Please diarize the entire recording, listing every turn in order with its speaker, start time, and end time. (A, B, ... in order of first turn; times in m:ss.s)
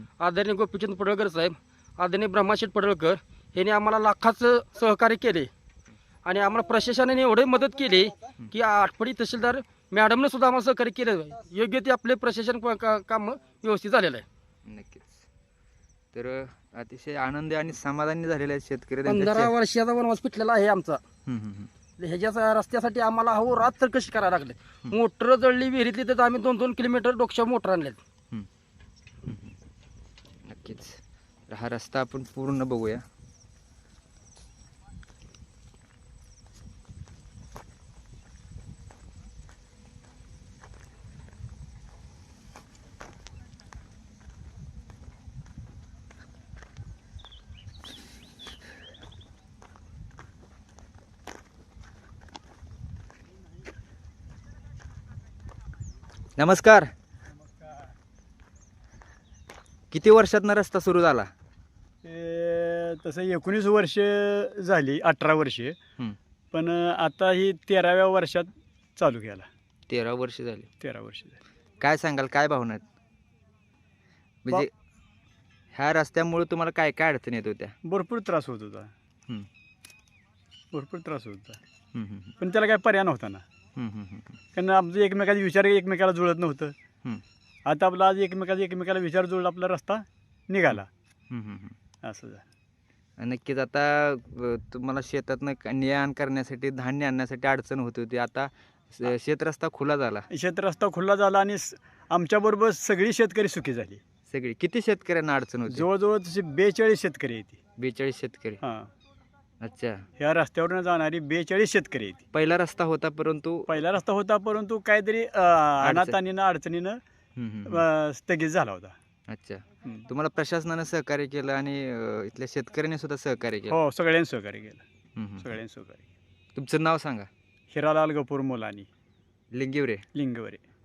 0:00.2-0:05.5 A
0:06.2-0:14.2 A
0:14.7-0:15.3 B
0:16.1-0:19.5 B
0:19.0-0:21.0 A
0:21.3-0:21.7 B
0:22.0-0:28.0 A
0:29.3-0:29.5 B
0:30.4-0:33.0 B
0:56.4-0:56.9 B
0:59.9-1:01.3 B
1:02.0-1:05.8 C
1:06.5-1:09.5 C
1:09.9-1:10.7 B
1:10.8-1:11.4 C
1:11.8-1:12.8 B
1:14.4-1:14.7 B
1:15.7-1:17.7 B
1:17.8-1:18.9 C
1:20.7-1:21.6 C
1:21.9-1:22.3 B
1:22.4-1:23.4 C
1:23.8-1:24.4 B
1:24.5-1:26.7 C
1:27.6-1:30.9 C
1:30.7-1:31.8 B
1:32.0-1:32.4 C
1:33.2-1:40.2 B
1:40.3-1:44.0 C
1:44.3-1:45.8 B
1:45.7-1:47.6 C
1:47.8-1:48.6 B
1:48.6-1:48.9 C
1:49.6-1:50.0 B
1:50.2-1:52.2 C
1:52.3-1:53.7 B
1:53.7-1:57.0 C
1:55.8-1:56.2 B
1:57.4-1:57.8 B
1:57.6-1:58.9 C
1:59.3-2:03.8 B
2:03.7-2:04.8 C
2:05.2-2:05.5 B
2:05.4-2:06.0 C
2:06.5-2:07.3 B
2:07.7-2:08.9 C
2:09.5-2:10.0 B
2:10.1-2:10.6 C